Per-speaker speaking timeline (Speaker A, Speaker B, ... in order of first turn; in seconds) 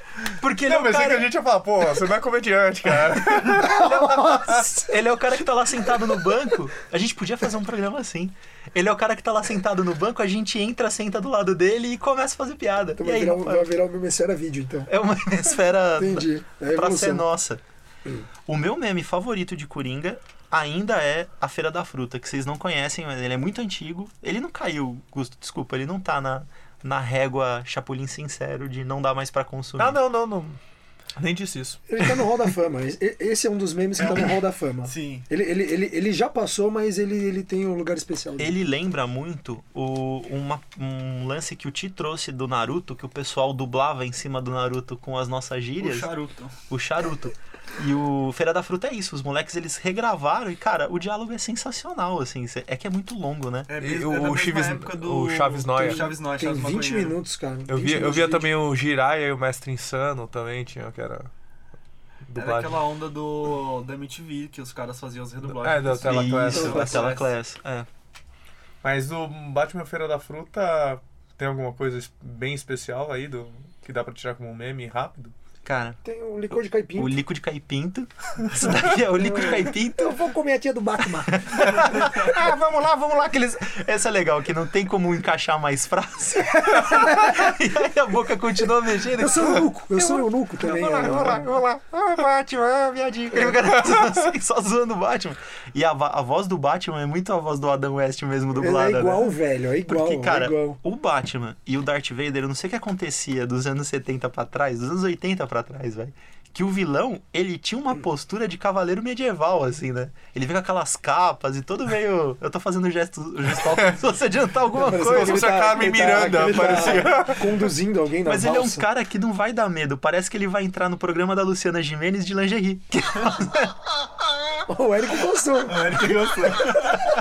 Speaker A: 0.4-1.3, 3.7-13.7, 14.9-17.6, 18.4-30.0, 38.4-46.1, 46.7-53.7, 66.0-67.9, 75.6-76.0, 77.0-80.2, 81.3-99.3, 99.9-116.4, 118.2-123.7
Speaker B: 0.7-4.4, 29.8-30.6, 31.1-31.8, 53.8-56.0, 57.7-61.3, 62.3-62.8, 65.4-67.0, 68.8-75.3, 114.8-117.5
Speaker C: 3.7-4.6, 13.0-14.9, 15.9-17.2, 31.9-38.5, 55.8-58.5, 66.5-67.0, 76.0-77.2, 79.0-81.6, 86.9-87.2, 89.2-91.5, 98.5-100.8, 114.7-118.9, 124.7-126.0
Speaker D: 34.0-35.2, 45.8-46.5, 53.7-57.1, 62.4-67.3, 125.7-127.0